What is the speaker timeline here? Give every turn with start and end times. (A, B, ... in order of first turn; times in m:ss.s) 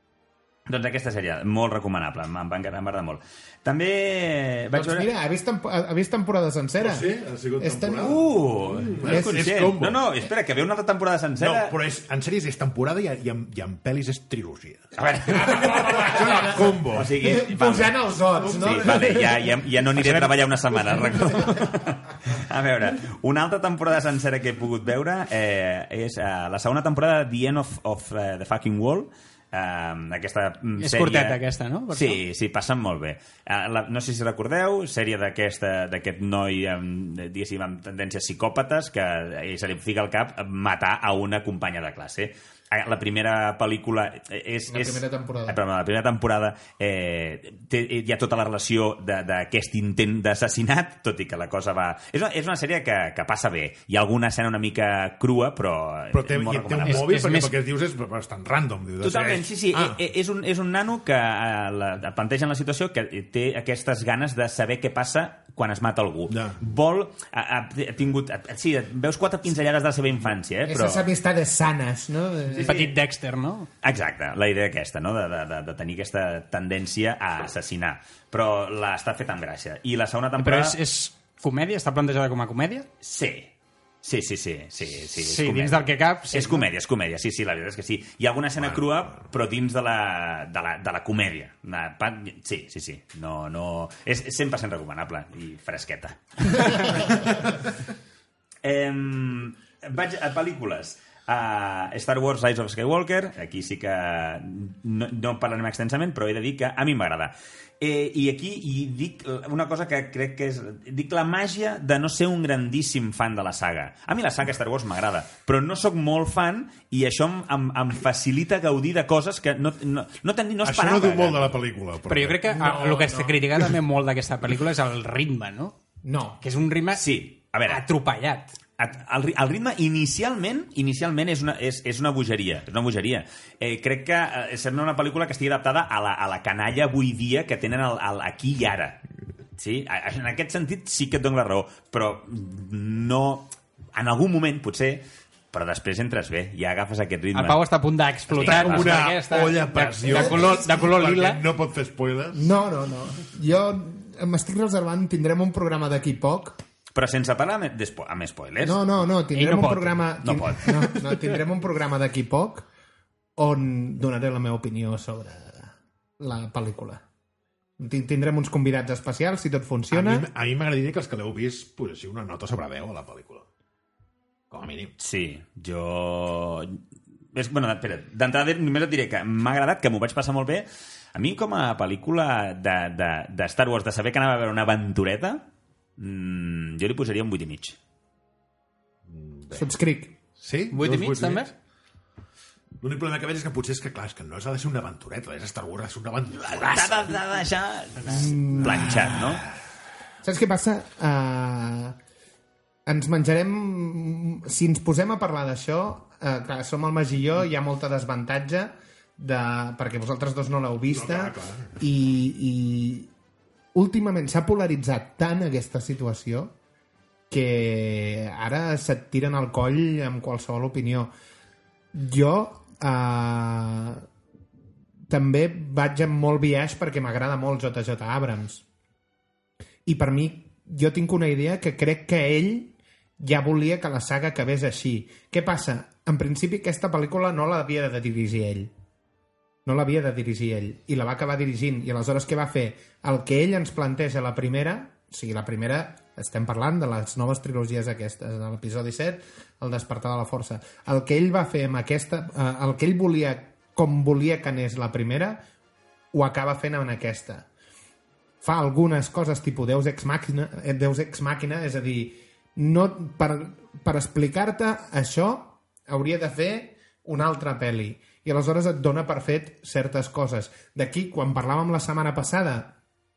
0:00.7-0:05.1 A
0:04.7-0:07.1 B
0:06.8-0:10.1 C
0:07.6-0:08.2 B
0:08.0-0:11.8 A
0:09.0-0:09.4 B
0:11.4-0:14.9 C
0:15.0-0:31.4 A
0:15.3-0:19.5 B
0:15.5-0:17.3 C
0:18.4-0:19.4 C
0:20.0-0:20.3 C
0:30.8-0:32.2 D
0:31.9-0:57.1 A
0:44.7-0:45.6 B
0:56.1-1:00.0 C
0:56.8-0:57.5 D
0:59.0-1:11.1 A
1:06.3-1:06.6 C
1:10.7-1:12.8 B
1:12.5-1:12.9 A
1:12.6-1:13.7 D
1:13.8-1:20.8 A
1:20.4-1:22.9 D
1:23.0-1:23.5 A
1:24.0-1:37.6 A
1:25.2-1:26.6 D
1:28.6-1:29.2 C
1:38.6-2:01.6 A
2:00.6-2:02.6 C
2:02.0-2:05.8 D
2:02.5-2:03.4 B
2:06.0-2:06.4 B
2:06.4-2:08.5 D
2:06.9-2:07.8 A
2:08.8-2:19.0 A
2:19.6-2:27.6 A
2:27.3-2:31.4 D
2:28.3-2:29.1 A
2:28.4-2:32.5 C
2:30.1-2:30.6 B
2:32.3-2:36.6 B
2:36.9-2:38.8 A
2:38.6-2:42.6 B
2:39.3-2:40.1 D
2:40.2-2:40.8 A
2:43.4-2:47.0 B
2:47.8-2:50.2 B
2:49.9-2:53.5 C
2:54.5-2:54.9 C
2:55.0-2:56.8 A
2:57.3-3:05.5 A
3:06.0-3:07.8 A
3:09.1-3:09.7 C
3:09.5-3:10.2 B
3:10.4-3:11.5 C
3:10.7-3:11.5 D
3:12.8-3:17.2 C
3:16.4-3:19.4 A
3:18.0-3:19.2 B
3:18.6-3:19.4 C
3:20.2-3:22.0 B
3:22.8-3:33.1 B
3:30.9-3:31.8 C
3:33.7-3:36.5 B
3:37.3-3:41.1 B
3:41.9-3:44.0 B
3:45.1-3:48.6 B
3:49.8-3:58.7 B
3:59.6-4:15.4 B
4:16.1-4:17.5 B
4:18.4-4:32.8 B